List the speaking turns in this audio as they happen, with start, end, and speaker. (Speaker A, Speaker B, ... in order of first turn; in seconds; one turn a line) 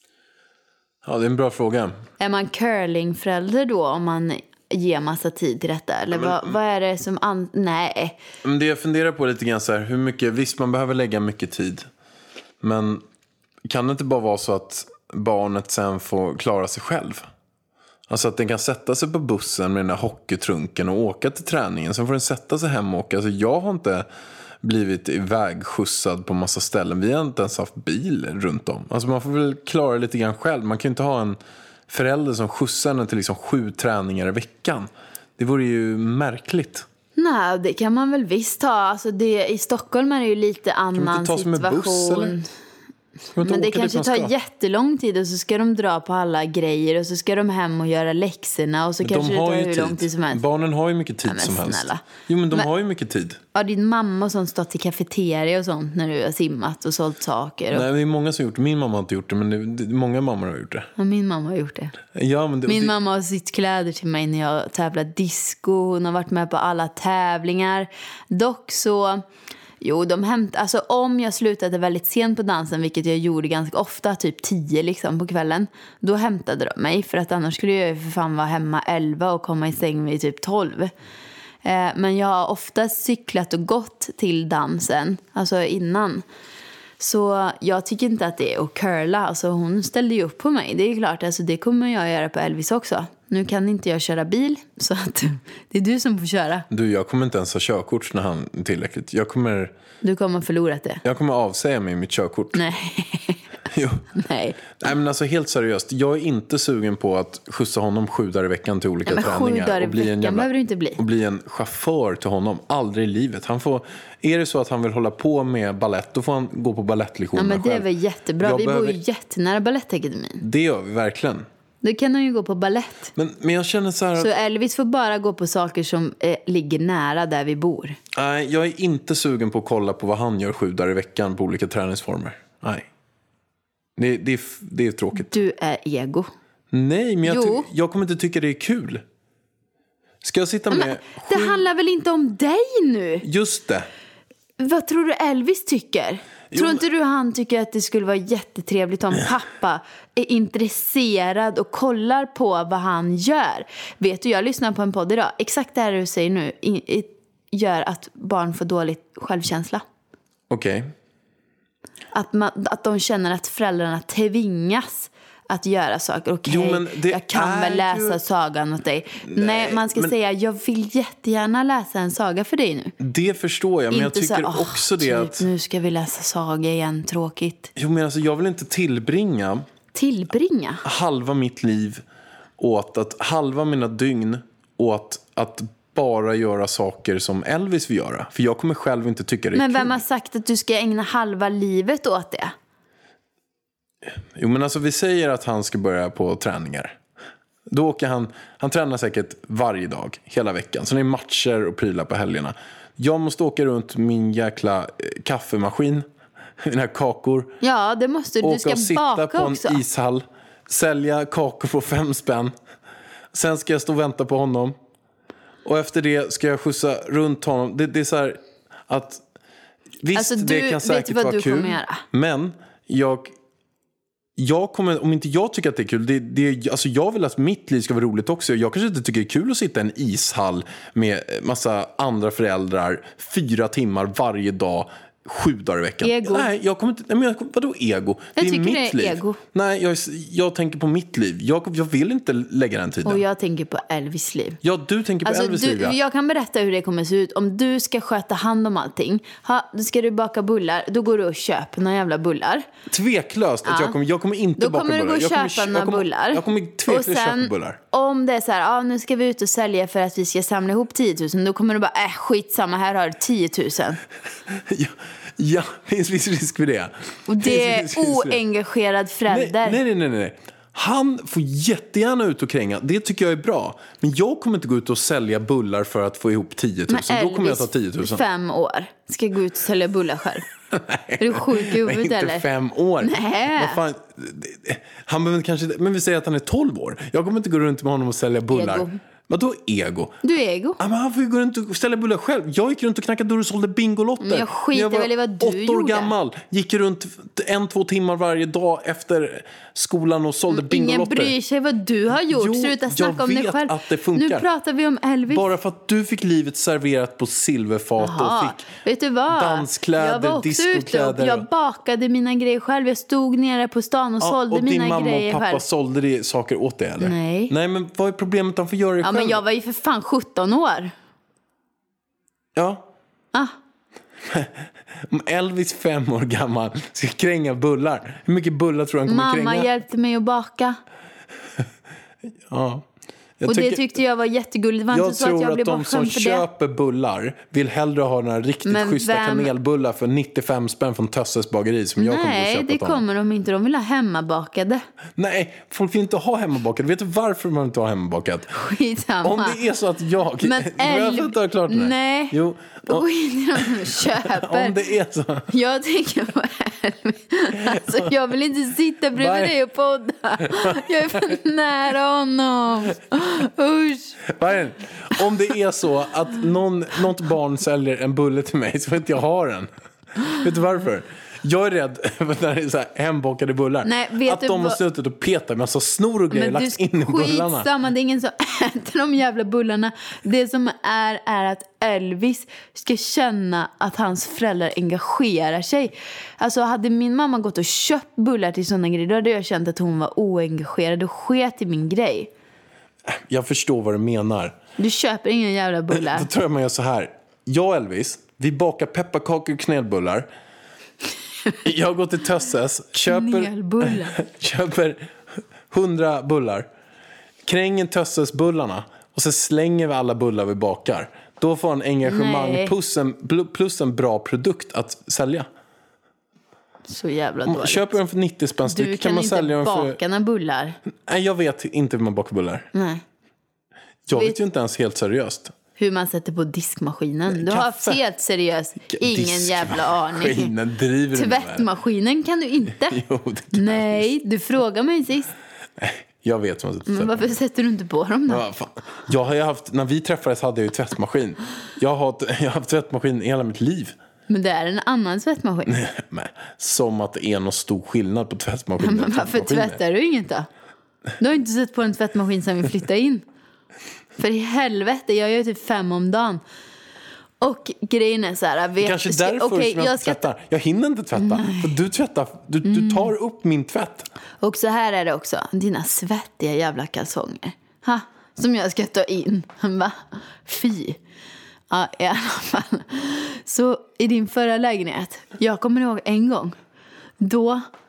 Speaker A: 1.0-2.0
Speaker B: 2.2-8.2
Speaker A: 6.1-6.5
Speaker A: 8.4-11.9
Speaker A: 12.6-13.0
Speaker A: 13.7-17.3
Speaker A: 18.1-24.1
Speaker A: 24.6-36.9
Speaker B: 37.1-42.5
Speaker A: 40.9-42.4
Speaker A: 43.3-44.3
Speaker B: 43.4-50.4
Speaker A: 49.0-53.4
Speaker B: 51.3-52.7
Speaker B: 53.5-57.9
Speaker A: 57.7-60.9
Speaker B: 61.0-62.0
Speaker A: 62.1-62.9
Speaker B: 62.6-69.2
Speaker B: 69.8-80.9
Speaker B: 81.6-86.2
Speaker B: 87.0-96.7
Speaker A: 96.7-99.7
Speaker B: 100.0-101.0
Speaker A: 101.0-102.6
Speaker B: 102.5-103.4
Speaker A: 103.7-104.1
Speaker B: 104.1-104.8
Speaker A: 104.7-117.9
Speaker B: 109.0-111.0
Speaker B: 117.3-120.4
Speaker A: 118.4-119.0
Speaker A: 120.4-121.5
Speaker B: 121.8-123.1
Speaker A: 123.1-124.3
Speaker B: 124.2-128.0
Speaker A: 128.1-132.9
Speaker A: 134.0-135.4
Speaker B: 135.1-136.3
Speaker A: 136.7-139.0
Speaker B: 137.2-137.7
Speaker A: 140.2-141.6
Speaker B: 140.7-143.2
Speaker A: 143.2-143.9
Speaker B: 144.6-159.8
Speaker A: 146.5-146.8
Speaker A: 160.5-160.9
Speaker B: 162.1-172.9
Speaker A: 166.4-168.2
Speaker A: 169.3-170.1
Speaker A: 173.0-175.5
Speaker B: 173.9-177.7
Speaker A: 177.8-179.7
Speaker B: 179.9-180.8
Speaker A: 180.8-182.0
Speaker A: 182.6-189.9
Speaker B: 189.5-192.5
Speaker A: 194.0-197.0
Speaker A: 197.7-206.1
Speaker A: 206.6-207.5
Speaker B: 207.6-209.8
Speaker A: 208.4-212.5
Speaker A: 213.3-214.7
Speaker A: 215.6-219.2
Speaker A: 220.0-223.3
Speaker B: 220.1-222.0
Speaker A: 224.4-243.2
Speaker B: 236.0-236.5
Speaker B: 238.3-239.4
Speaker B: 243.0-244.6
Speaker A: 244.6-245.9
Speaker B: 245.2-252.7
Speaker A: 252.9-257.8
Speaker B: 253.6-253.9
Speaker B: 254.6-264.0
Speaker A: 264.5-268.4
Speaker B: 267.3-269.8
Speaker A: 269.3-278.2
Speaker B: 276.9-280.4
Speaker A: 280.7-290.2
Speaker B: 281.2-282.4
Speaker B: 283.0-283.8
Speaker B: 288.5-289.0
Speaker B: 290.2-290.8
Speaker A: 290.8-301.3
Speaker B: 294.2-296.1
Speaker B: 300.5-305.5
Speaker A: 302.3-304.5
Speaker A: 305.3-308.6
Speaker B: 308.0-315.6
Speaker A: 309.3-311.5
Speaker A: 314.2-319.4
Speaker B: 317.0-317.5
Speaker B: 319.0-320.9
Speaker A: 322.5-322.9
Speaker A: 324.3-329.7
Speaker B: 329.1-330.8
Speaker A: 332.5-332.9
Speaker A: 333.4-333.8
Speaker B: 333.4-336.4
Speaker A: 334.9-343.0
Speaker B: 338.6-339.5
Speaker B: 342.0-344.8
Speaker A: 345.2-348.5
Speaker B: 348.5-349.6
Speaker A: 349.2-355.5
Speaker B: 350.4-354.8
Speaker B: 355.5-364.2
Speaker A: 357.6-358.1
Speaker A: 359.2-359.5
Speaker A: 360.4-361.3
Speaker A: 364.3-369.7
Speaker A: 370.2-377.7
Speaker B: 373.8-374.8
Speaker B: 376.3-392.3
Speaker A: 393.1-394.6
Speaker B: 394.8-396.3
Speaker A: 395.9-400.3
Speaker A: 401.6-405.1
Speaker B: 403.1-404.1
Speaker A: 405.7-406.7
Speaker A: 407.4-415.5
Speaker B: 412.0-412.7
Speaker B: 416.9-417.9
Speaker A: 417.4-420.0
Speaker B: 418.6-420.8
Speaker A: 421.1-422.7
Speaker B: 422.7-423.0
Speaker A: 424.1-425.5
Speaker B: 425.8-430.5
Speaker A: 427.3-428.0
Speaker A: 428.9-431.7
Speaker B: 431.1-433.0
Speaker A: 432.8-434.1
Speaker B: 433.5-435.3
Speaker A: 435.8-437.3
Speaker B: 436.9-438.4
Speaker A: 438.3-443.9
Speaker B: 444.3-445.8
Speaker A: 445.7-449.8
Speaker B: 448.8-450.5
Speaker B: 451.2-453.2
Speaker B: 454.2-456.4
Speaker B: 457.4-460.2
Speaker A: 458.8-464.1
Speaker B: 461.1-461.7
Speaker B: 462.6-463.1
Speaker B: 464.4-471.0
Speaker B: 471.7-476.6
Speaker B: 477.2-477.6